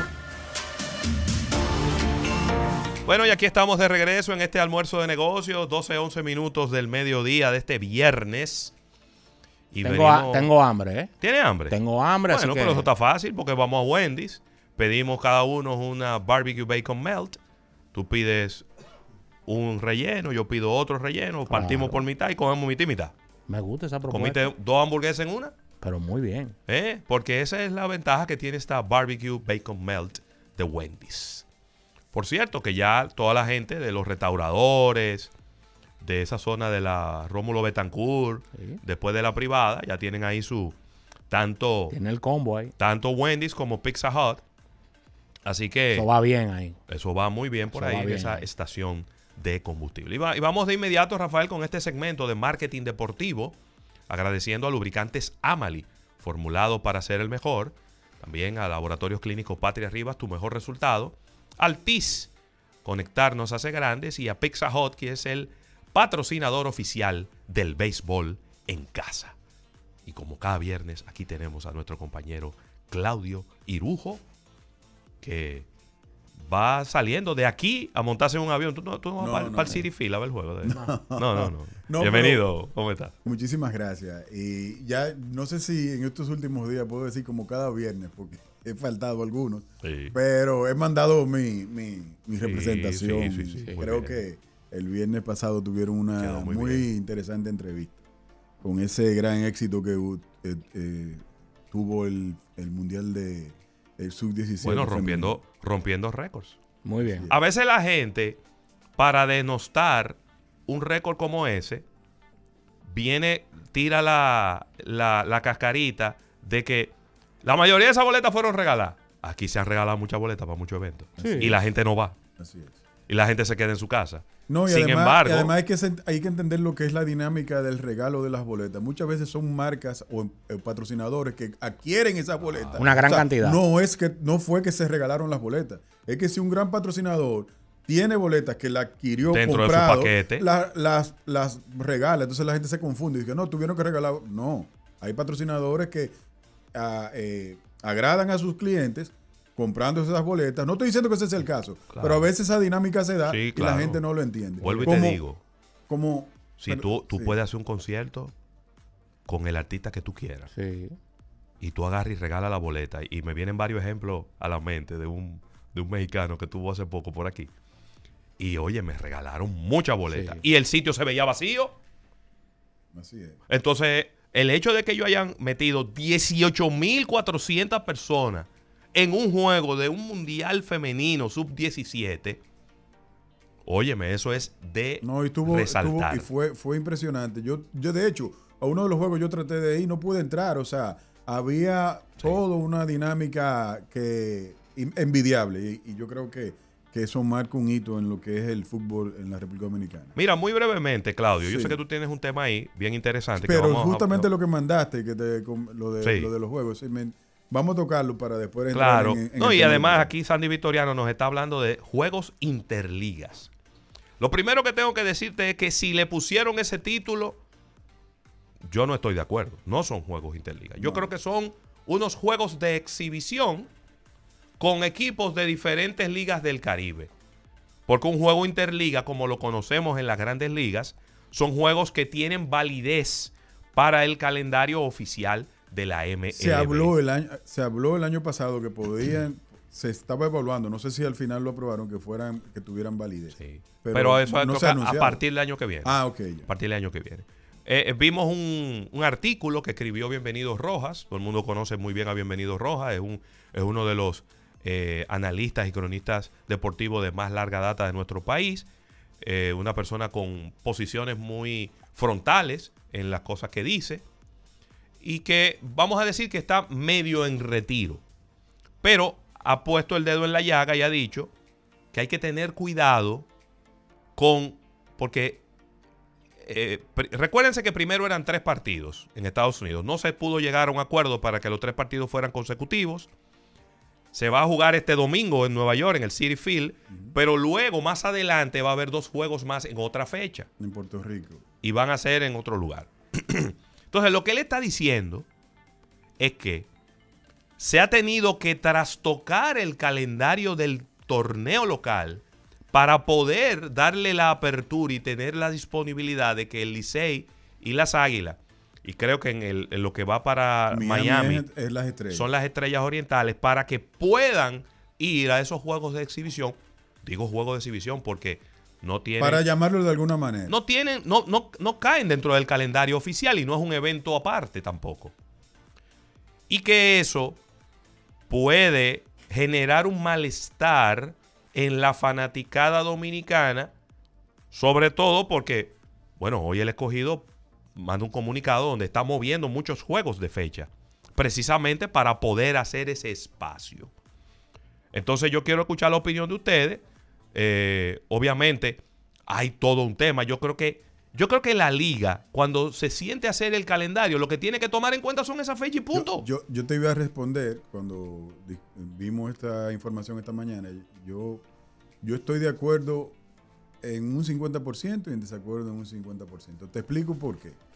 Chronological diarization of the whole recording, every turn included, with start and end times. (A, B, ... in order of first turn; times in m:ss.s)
0:03.0-0:08.7 A
0:09.7-0:10.5 A
0:09.8-0:11.1 B
0:11.2-0:11.8 A
0:11.7-0:12.9 B
0:12.3-0:17.4 A
0:17.9-0:18.7 A
0:19.4-0:23.1 A
0:21.5-0:22.0 B
0:23.5-0:24.4 B
0:24.1-0:25.5 A
0:25.8-0:26.6 B
0:26.7-0:31.4 A
0:32.1-0:35.3 A
0:36.0-0:40.8 A
0:41.3-0:42.0 A
0:41.9-0:42.7 B
0:42.8-0:44.4 A
0:45.4-0:46.1 A
0:45.9-0:46.8 B
0:46.9-0:53.6 A
0:47.7-0:48.5 B
0:54.1-1:02.3 A
1:02.8-1:09.4 A
1:10.0-1:14.2 A
1:15.2-1:15.7 A
1:16.4-1:23.1 A
1:19.2-1:19.9 C
1:20.6-1:22.5 C
1:23.2-1:38.0 C
1:29.8-1:30.2 A
1:32.4-1:34.2 A
1:33.6-1:33.8 B
1:36.2-1:36.9 A
1:38.6-1:45.4 C
1:44.6-1:46.6 A
1:46.8-1:47.3 B
1:47.0-1:47.4 C
1:47.3-1:48.4 A
1:49.0-1:51.8 A
1:52.8-2:02.2 A
2:01.2-2:01.5 B
2:01.2-2:01.7 C
2:02.4-2:02.8 C
2:03.1-2:05.5 A
2:04.5-2:26.1 C
2:12.4-2:12.9 A
2:12.8-2:13.6 B
2:19.3-2:20.4 A
2:26.8-2:35.2 C
2:31.9-2:32.3 A
2:33.2-2:34.0 A
2:34.6-2:35.1 B
2:34.6-2:35.4 A
2:35.9-2:37.3 C
2:36.6-2:38.3 A
2:39.3-2:40.5 A
2:40.5-2:41.0 B
2:41.6-2:47.5 A
2:48.4-2:51.8 A
2:50.1-2:50.4 B
2:52.9-2:53.4 C
2:53.5-3:02.4 A
3:03.6-3:06.3 A
3:05.0-3:20.1 C
3:20.1-3:24.3 A
3:21.4-3:21.8 C
3:23.4-3:30.1 C
3:26.0-3:26.3 A
3:28.7-3:33.5 A
3:34.2-3:37.4 A
3:38.7-3:43.7 A
3:40.8-3:41.1 C
3:44.6-3:47.1 A
3:47.9-3:56.9 A
3:56.3-4:05.2 C
4:03.3-4:18.7 A
4:05.8-4:06.5 C
4:19.2-4:24.0 A
4:25.0-4:28.0 A
4:28.8-4:31.3 A
4:31.9-4:33.3 A
4:34.2-4:35.4 A
4:36.4-4:43.1 A
4:44.1-4:50.5 A
4:46.9-4:47.2 C
4:50.6-4:51.4 C
4:51.6-4:55.3 A
4:56.2-4:56.7 A
4:57.6-5:11.4 A
5:10.7-5:12.3 C
5:12.1-5:19.4 A
5:19.2-5:20.6 C
5:20.5-5:25.2 A
5:26.5-5:27.4 A
5:28.3-5:33.7 A
5:34.5-5:43.9 A
5:44.9-5:56.2 A
5:55.9-6:01.4 C
6:02.0-6:03.2 C
6:03.8-6:07.6 C